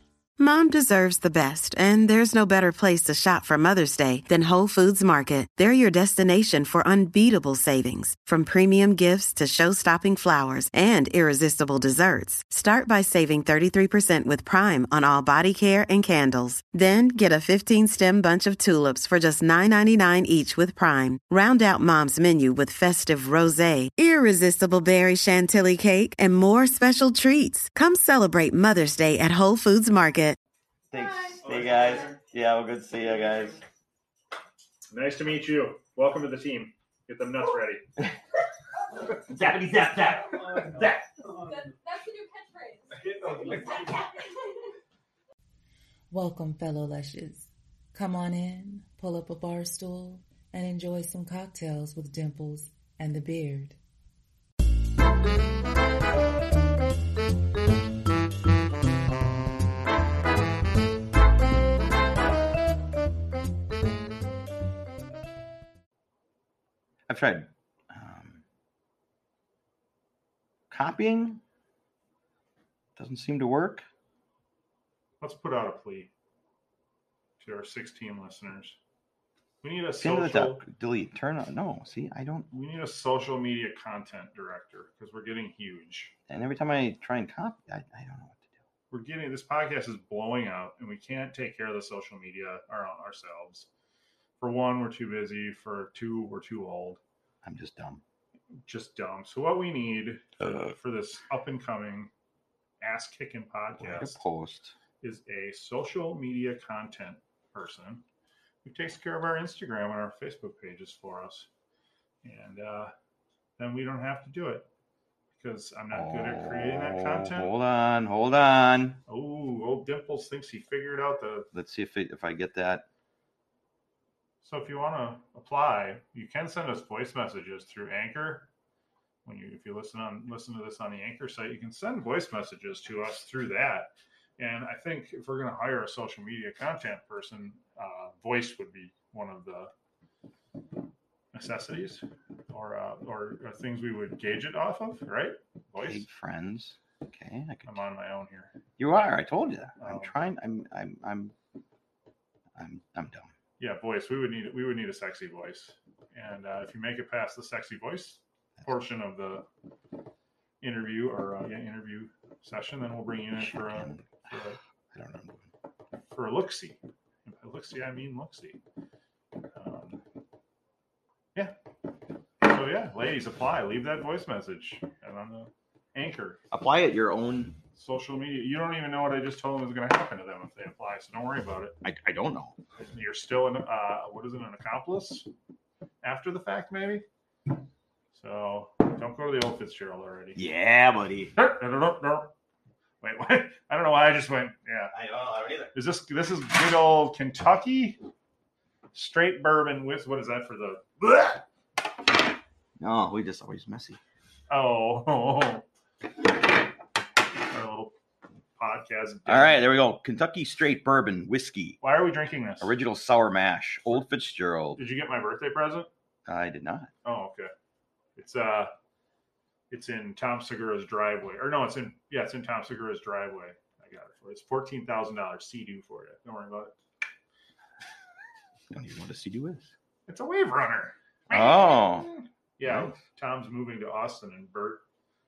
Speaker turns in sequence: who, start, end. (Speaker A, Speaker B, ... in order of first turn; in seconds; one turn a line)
Speaker A: 0.4-30.4
Speaker B: 30.9-33.6
Speaker C: 31.4-32.1
Speaker C: 34.9-37.9
Speaker B: 39.1-41.1
Speaker D: 41.3-44.5
Speaker E: 46.1-53.8
Speaker B: 67.1-68.4
Speaker B: 70.7-71.4
Speaker B: 73.0-73.8
Speaker C: 75.2-76.1
Speaker C: 77.4-78.8
Speaker C: 79.6-80.6
Speaker B: 80.0-82.5
Speaker C: 82.5-86.1
Speaker B: 86.3-88.4
Speaker C: 88.9-93.7
Speaker C: 94.4-97.0
Speaker B: 97.4-98.0
Speaker C: 98.7-102.1
Speaker B: 100.4-100.7
Speaker C: 102.8-104.2
Speaker B: 103.8-104.7
Speaker C: 105.0-108.0
Speaker C: 108.6-111.5
Speaker C: 112.2-112.9
Speaker C: 113.6-114.7
Speaker C: 115.4-117.5
Speaker B: 115.9-119.0
Speaker C: 119.1-121.5
Speaker B: 121.5-122.8
Speaker C: 124.4-128.5
Speaker C: 129.2-139.7
Speaker C: 141.3-146.0
Speaker B: 145.8-147.8
Speaker C: 147.7-148.5
Speaker B: 148.8-151.3
Speaker C: 149.8-150.1
Speaker B: 152.6-153.3
Speaker C: 153.6-159.4
Speaker C: 160.6-164.6
Speaker B: 163.3-164.3
Speaker B: 164.9-165.5
Speaker C: 166.1-168.6
Speaker C: 169.5-170.0
Speaker C: 172.4-176.4
Speaker B: 176.5-177.6
Speaker C: 177.8-181.8
Speaker B: 181.8-182.6
Speaker C: 182.8-185.3
Speaker C: 186.0-187.0
Speaker C: 188.1-190.4
Speaker B: 190.3-191.3
Speaker C: 191.3-192.3
Speaker C: 193.0-194.9
Speaker B: 194.9-195.7
Speaker C: 195.7-198.0
Speaker C: 198.9-201.4
Speaker B: 202.8-204.0
Speaker C: 204.5-205.6
Speaker C: 207.5-207.9
Speaker C: 208.6-209.6
Speaker B: 209.3-211.8
Speaker C: 211.8-212.7
Speaker B: 212.6-214.8
Speaker C: 214.8-215.9
Speaker B: 216.3-216.9
Speaker C: 217.0-217.5
Speaker C: 218.2-218.7
Speaker C: 219.7-226.7
Speaker B: 228.7-229.7
Speaker C: 230.1-234.8
Speaker B: 231.3-232.1
Speaker B: 232.6-232.9